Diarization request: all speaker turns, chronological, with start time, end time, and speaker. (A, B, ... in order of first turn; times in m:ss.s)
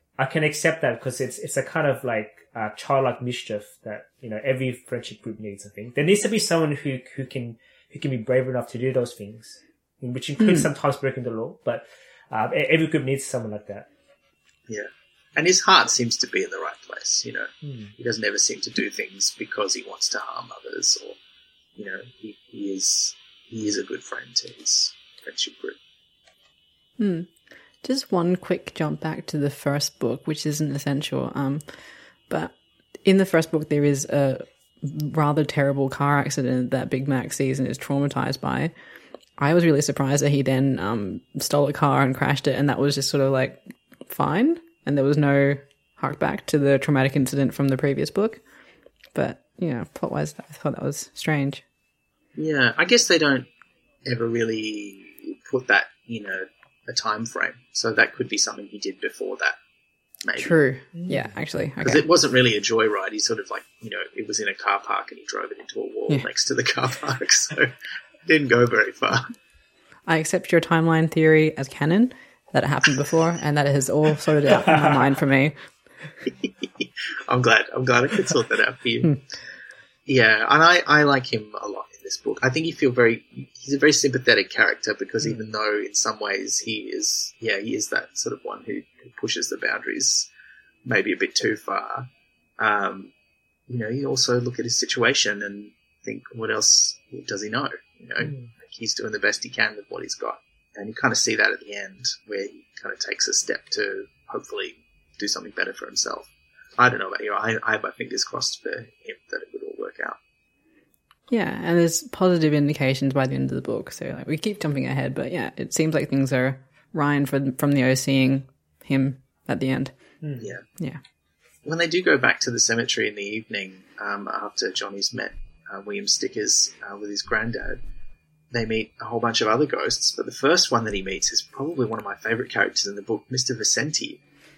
0:00.2-0:13.9 A
0:10.4-0:10.7 B
0:14.7-0:21.2 C
0:17.6-0:17.9 A
0:21.8-0:25.8 C
0:27.0-0:27.3 B
0:27.8-0:31.8 B
0:32.3-0:38.7 B
0:39.4-0:48.4 B
0:49.1-0:51.6 B
0:52.4-0:53.5 C
0:54.0-0:59.6 C
1:00.2-1:00.6 C
1:00.4-1:02.0 B
1:00.9-1:01.3 A
1:01.8-1:07.7 C
1:08.2-1:09.3 C
1:10.1-1:15.6 B
1:14.5-1:15.1 A
1:16.3-1:19.2 C
1:20.1-1:30.3 C
1:30.8-1:33.1 C
1:33.7-1:50.2 C
1:38.2-1:38.5 A
1:51.3-1:59.9 B
2:00.2-2:00.5 A
2:00.4-2:00.6 C
2:01.6-2:07.8 C
2:08.5-2:14.2 C